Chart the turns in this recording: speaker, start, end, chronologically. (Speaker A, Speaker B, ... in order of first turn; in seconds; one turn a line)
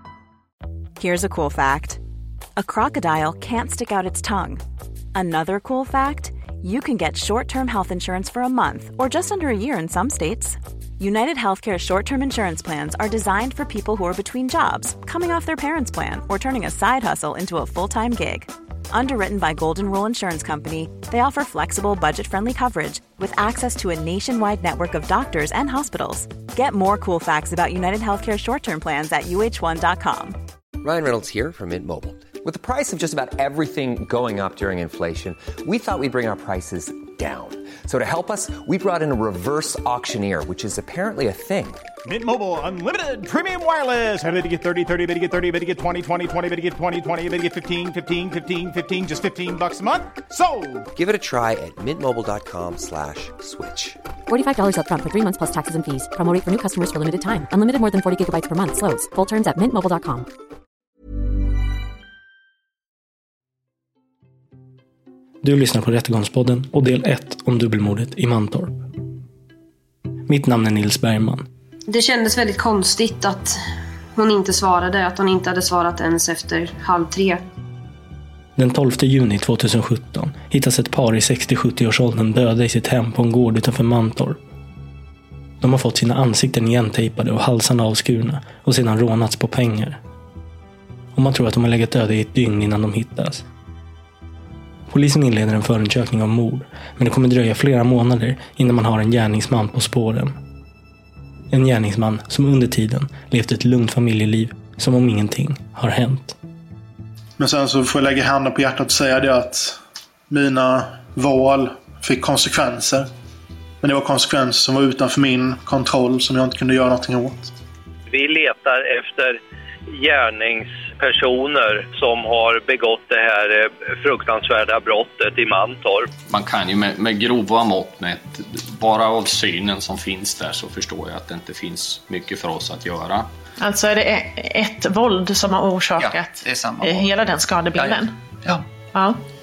Speaker A: 1.0-2.0
Speaker A: 2.6-4.6
Speaker A: 5.1-30.4
Speaker B: 30.8-41.9
Speaker C: 42.0-50.9
Speaker B: 51.0-54.0
Speaker D: 54.3-60.3
Speaker E: 65.4-68.9
Speaker E: 70.3-71.5
Speaker F: 71.9-73.6
Speaker F: 74.2-77.4
Speaker E: 78.6-84.4
Speaker E: 85.6-90.0
Speaker E: 91.2-93.5
Speaker E: 94.9-100.4
Speaker E: 101.5-106.4
Speaker G: 107.4-109.8
Speaker G: 110.3-113.1
Speaker G: 113.8-117.5
Speaker H: 118.1-126.1
Speaker I: 126.3-133.3
Speaker J: 133.6-138.1
Speaker K: 136.0-137.2
Speaker K: 137.7-138.7
Speaker J: 138.9-139.2